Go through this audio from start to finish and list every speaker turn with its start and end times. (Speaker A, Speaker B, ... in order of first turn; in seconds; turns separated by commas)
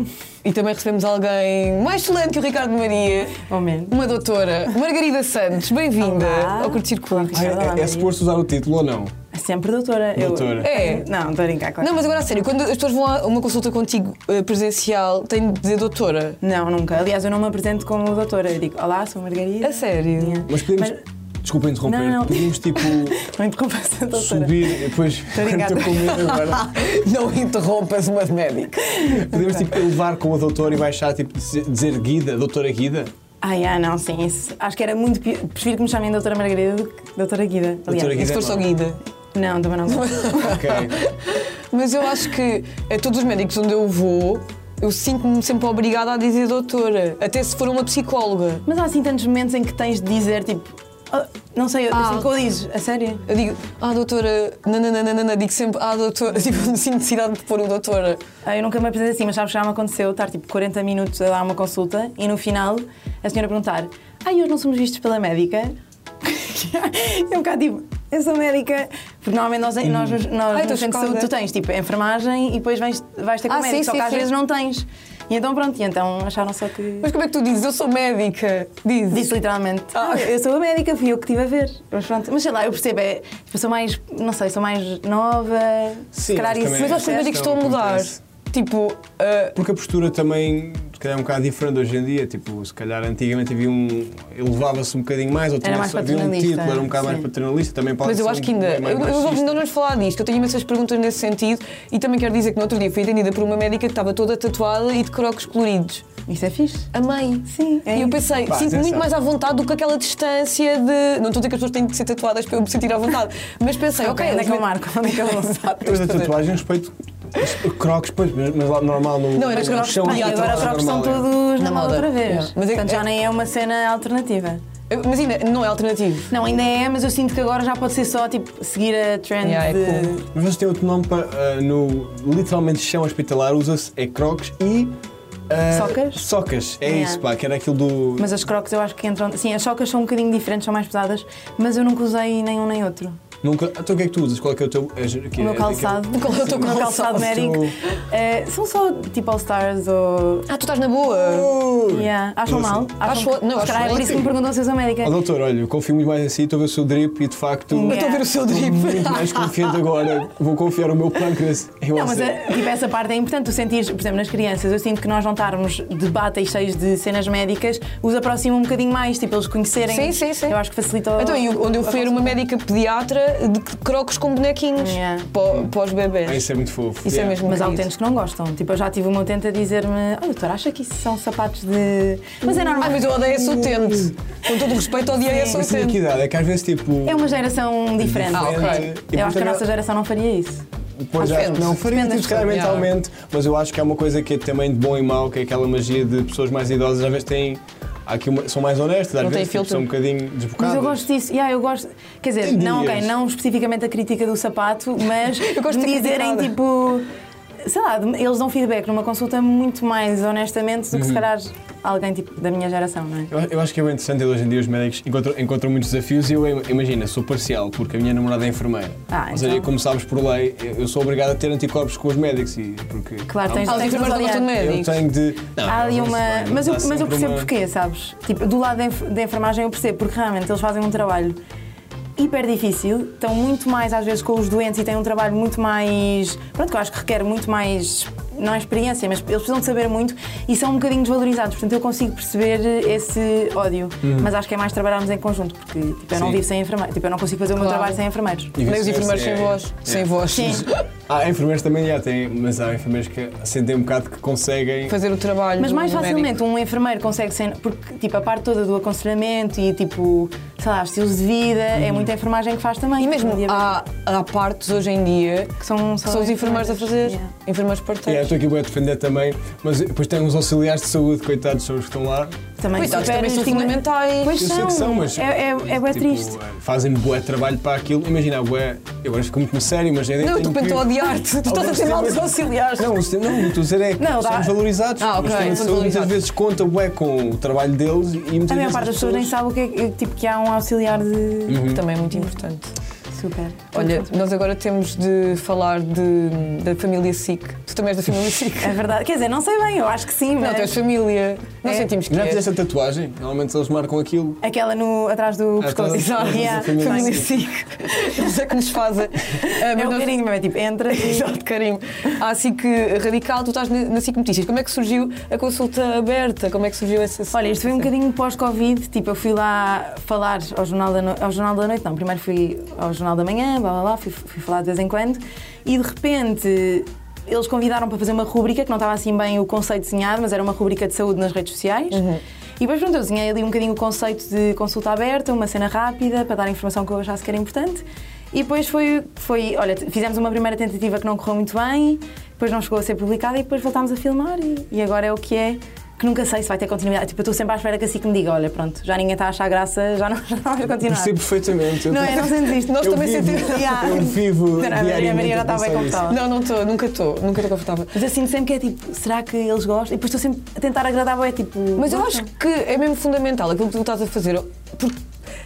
Speaker A: 0.4-7.4, Speaker B: 3.5-4.0, Speaker B: 6.0-8.2, Speaker C: 7.3-9.1, Speaker B: 9.3-11.9, Speaker C: 10.2-10.7, Speaker A: 10.6-11.1, Speaker A: 11.8-16.4, Speaker B: 16.4-21.0, Speaker A: 19.6-20.5, Speaker C: 20.5-23.2, Speaker B: 21.8-26.3, Speaker C: 24.1-26.7, Speaker A: 26.1-29.6, Speaker C: 29.0-33.1, Speaker B: 33.4-38.5, Speaker C: 37.9-38.8, Speaker A: 38.2-39.0, Speaker B: 39.3-40.6, Speaker A: 39.9-48.6, Speaker C: 40.4-41.0, Speaker B: 48.6-53.2, Speaker A: 51.9-52.3, Speaker A: 53.3-58.2, Speaker B: 58.5-77.1, Speaker C: 69.8-70.2, Speaker A: 70.5-71.3, Speaker A: 73.5-74.3, Speaker A: 77.0-79.4, Speaker B: 79.1-87.4, Speaker A: 79.9-80.3, Speaker C: 86.1-88.2, Speaker A: 86.6-89.6, Speaker C: 89.6-99.6, Speaker B: 95.6-97.3, Speaker A: 98.0-106.0, Speaker B: 106.3-106.9, Speaker A: 106.9-116.4, Speaker B: 107.5-108.3, Speaker C: 108.5-109.1, Speaker B: 114.0-115.8, Speaker C: 115.8-121.3, Speaker A: 119.3-120.9, Speaker B: 119.5-124.6, Speaker A: 121.6-123.0, Speaker A: 124.9-126.3, Speaker B: 126.3-130.2, Speaker A: 129.4-130.2, Speaker C: 130.3-135.0, Speaker C: 135.5-138.3, Speaker B: 135.7-136.2, Speaker B: 136.8-137.2, Speaker B: 138.2-143.2, Speaker C: 143.4-147.8, Speaker B: 145.4-150.5, Speaker A: 146.1-147.4, Speaker A: 150.5-151.5, Speaker C: 151.2-153.0, Speaker B: 151.8-155.2, Speaker A: 153.0-154.2, Speaker C: 153.6-154.4, Speaker C: 155.0-162.6, Speaker B: 157.7-158.3, Speaker A: 157.8-159.8, Speaker B: 161.9-172.4, Speaker A: 169.9-170.6, Speaker A: 171.2-176.5, Speaker B: 174.8-175.3, Speaker C: 175.4-175.7, Speaker C: 176.2-177.5, Speaker A: 177.0-177.9, Speaker B: 177.5-183.2, Speaker A: 182.6-186.0, Speaker C: 183.0-184.1, Speaker B: 185.2-185.6, Speaker C: 185.3-187.3, Speaker B: 187.1-190.6, Speaker C: 188.0-189.7, Speaker A: 188.3-188.9, Speaker C: 191.0-201.1, Speaker B: 191.2-192.7, Speaker A: 191.2-191.8, Speaker A: 192.3-192.9, Speaker A: 199.2-199.8, Speaker B: 200.6-207.1, Speaker C: 202.4-203.2, Speaker A: 205.2-206.5, Speaker B: 207.6-213.3, Speaker C: 210.9-211.3, Speaker C: 213.3-227.5, Speaker B: 219.1-219.7, Speaker B: 223.3-224.6, Speaker A: 223.7-225.0, Speaker B: 225.6-231.4, Speaker B: 232.2-248.6, Speaker C: 244.0-244.3, Speaker C: 246.1-246.4, Speaker A: 247.5-248.0, Speaker C: 248.6-255.0, Speaker A: 248.6-250.8, Speaker B: 250.3-250.7, Speaker A: 254.9-256.3, Speaker B: 255.6-263.8, Speaker C: 261.7-262.1, Speaker A: 263.0-268.3, Speaker B: 265.6-267.3, Speaker C: 268.1-272.4, Speaker B: 272.6-276.4, Speaker A: 272.7-274.5, Speaker C: 274.3-289.3, Speaker A: 280.2-283.0, Speaker B: 284.0-284.6, Speaker A: 285.0-286.2, Speaker B: 288.5-292.3, Speaker C: 291.5-291.8, Speaker A: 291.6-292.7, Speaker B: 293.1-294.2, Speaker A: 293.7-298.8, Speaker B: 298.6-300.8, Speaker A: 300.4-302.4, Speaker B: 301.6-301.9, Speaker C: 302.1-304.4, Speaker B: 304.4-307.2, Speaker C: 305.6-307.3, Speaker A: 305.9-310.2, Speaker B: 309.4-311.3, Speaker A: 310.9-317.9, Speaker B: 317.3-332.0, Speaker A: 331.9-332.2, Speaker B: 332.6-356.2, Speaker C: 350.8-356.2, Speaker A: 352.2-354.0, Speaker A: 356.1-357.9, Speaker B: 357.9-362.3, Speaker A: 361.8-365.0